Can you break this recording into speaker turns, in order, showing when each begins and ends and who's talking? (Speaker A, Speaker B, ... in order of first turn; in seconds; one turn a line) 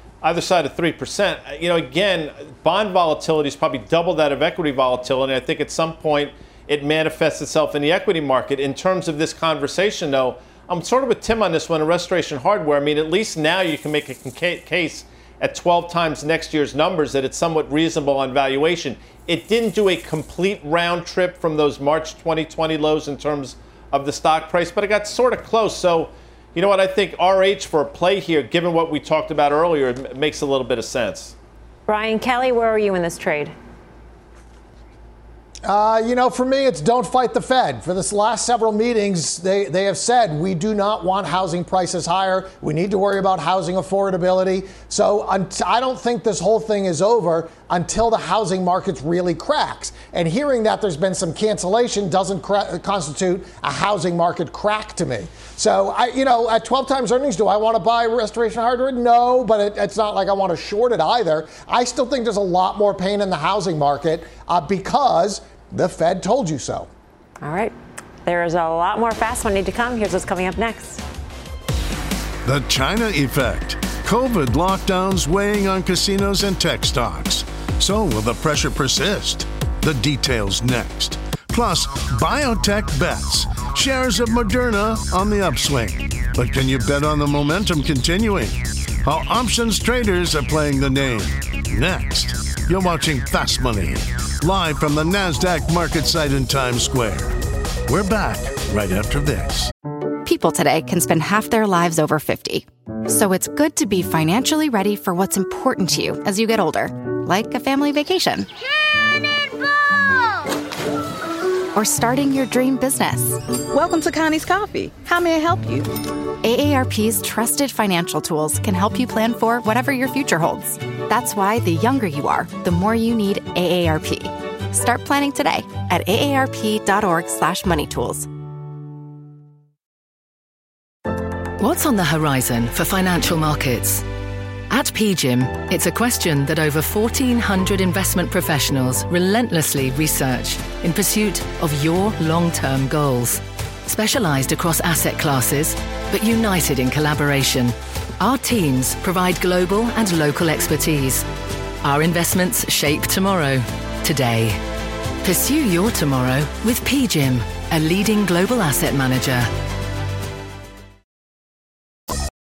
Speaker A: 0.2-31.4
Speaker B: 31.9-33.5
Speaker C: 35.6-66.9
Speaker B: 67.4-67.7
Speaker B: 68.2-71.0
Speaker D: 72.5-99.7
Speaker E: 100.2-108.5
Speaker E: 111.7-113.4
Speaker F: 113.7-115.9
Speaker E: 116.4-128.3
Speaker G: 131.6-134.1
Speaker G: 134.7-151.3
Speaker G: 151.8-154.6
Speaker G: 155.2-159.5